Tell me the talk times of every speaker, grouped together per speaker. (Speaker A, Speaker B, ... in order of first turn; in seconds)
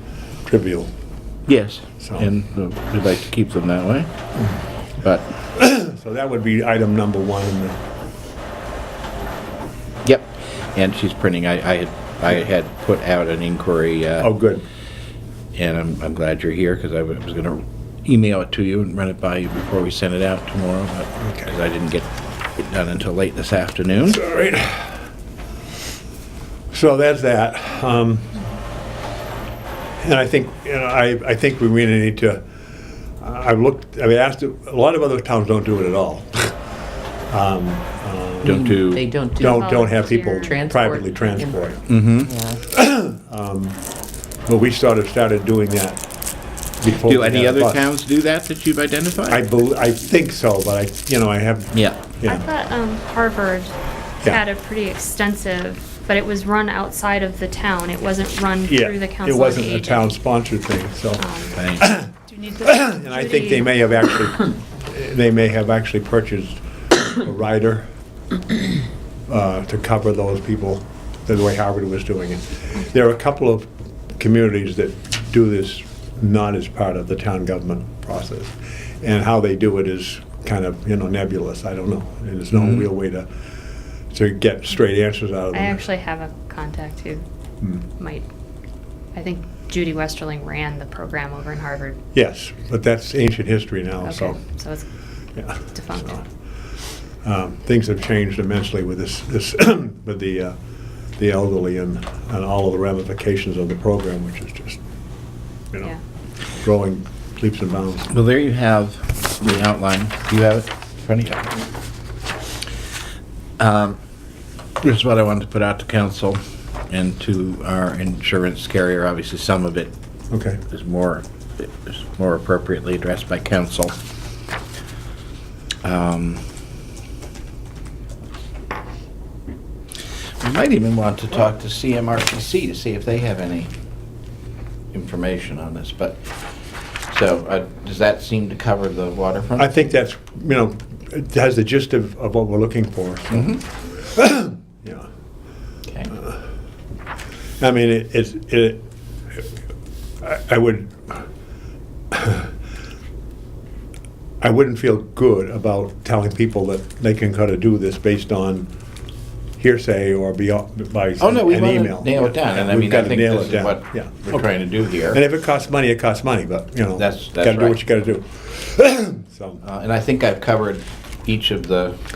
Speaker A: 0.5-0.9, 2.0-2.3, 5.5-7.8, 14.2-14.7, 21.2-21.5, 24.1-25.0, 26.7-28.4, 30.0-32.4, 33.2-36.6, 37.3-38.8, 39.4-41.9, 42.6-43.8, 44.5-46.0, 46.8-47.8, 49.3-52.5, 58.6-67.9, 69.3-83.3, 84.1-85.9, 92.1-94.4, 95.4-96.2, 97.2-100.6, 101.2-104.8, 106.5-108.1, 120.3-120.6, 139.6-145.1, 147.6-148.9, 150.2-151.2, 152.1-152.5, 154.4-158.7, 159.6-164.5, 165.1-169.6
Speaker B: 1.5-4.1, 5.0-5.3, 10.0-14.3, 15.5-24.2, 38.4-39.1, 41.9-42.3, 47.0-49.4, 51.7-52.0, 61.5-61.8, 108.1-111.6, 113.6-114.0, 114.8-119.9, 120.7-124.0, 125.8-126.4, 130.4-133.7, 134.9-139.7, 143.3-143.6, 161.2-165.2, 167.0-167.8, 169.6-172.0
Speaker C: 38.4-41.6, 42.2-42.6
Speaker D: 39.4-41.4, 52.2-60.2, 61.2-61.7, 62.2-63.7, 85.5-87.2, 87.8-88.2, 89.1-92.0, 94.0-94.8, 95.5-96.2